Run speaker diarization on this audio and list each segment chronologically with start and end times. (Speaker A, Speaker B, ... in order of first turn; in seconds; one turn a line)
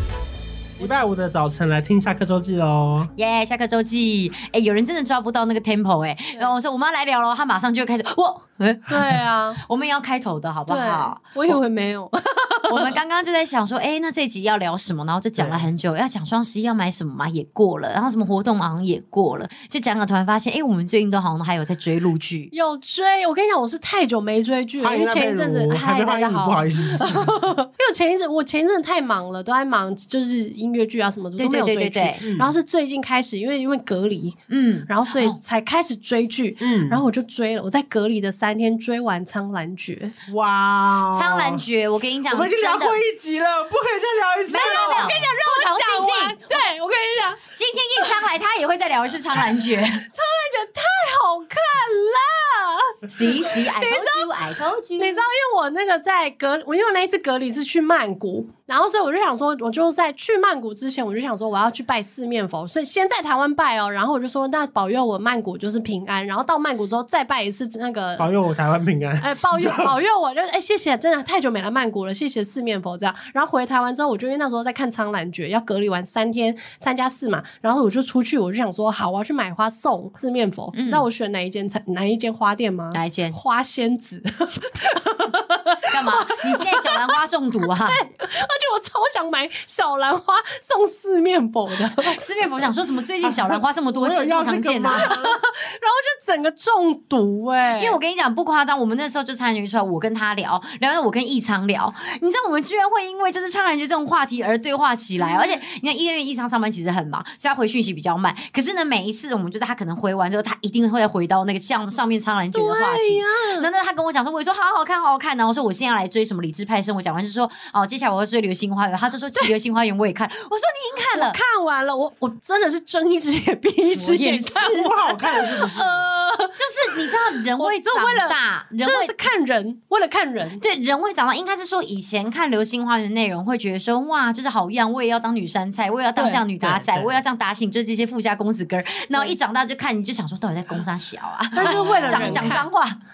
Speaker A: 0.8-3.1
Speaker B: 3.1-11.6
Speaker C: 8.9-9.6
Speaker C: 10.7-12.9
Speaker B: 12.7-22.5
Speaker A: 15.3-15.7
Speaker C: 22.5-34.4
Speaker A: 24.8-27.4
Speaker B: 31.4-32.2
Speaker A: 32.2-32.5
Speaker B: 34.5-35.4
Speaker C: 34.9-40.1
Speaker A: 36.6-37.0
Speaker A: 40.3-41.6
Speaker B: 41.1-43.0
Speaker A: 42.3-45.3
Speaker B: 44.5-46.7
Speaker C: 44.5-47.4
Speaker B: 47.5-50.0
Speaker C: 50.0-54.4
Speaker B: 53.1-55.2
Speaker C: 55.0-68.3
Speaker A: 68.2-69.9
Speaker C: 69.2-87.1
Speaker B: 80.7-81.1
Speaker B: 82.9-83.4
Speaker B: 85.8-88.0
Speaker C: 87.6-92.2
Speaker B: 92.0-95.1
Speaker A: 93.2-95.4
Speaker C: 94.9-98.0
Speaker B: 97.7-121.4
Speaker C: 105.2-105.6
Speaker C: 112.5-113.7
Speaker C: 121.1-130.6
Speaker A: 123.9-126.1
Speaker B: 124.2-124.7
Speaker B: 126.5-129.3
Speaker B: 130.6-143.0
Speaker C: 136.1-136.4
Speaker A: 136.6-137.2
Speaker C: 141.6-142.7
Speaker A: 141.6-142.6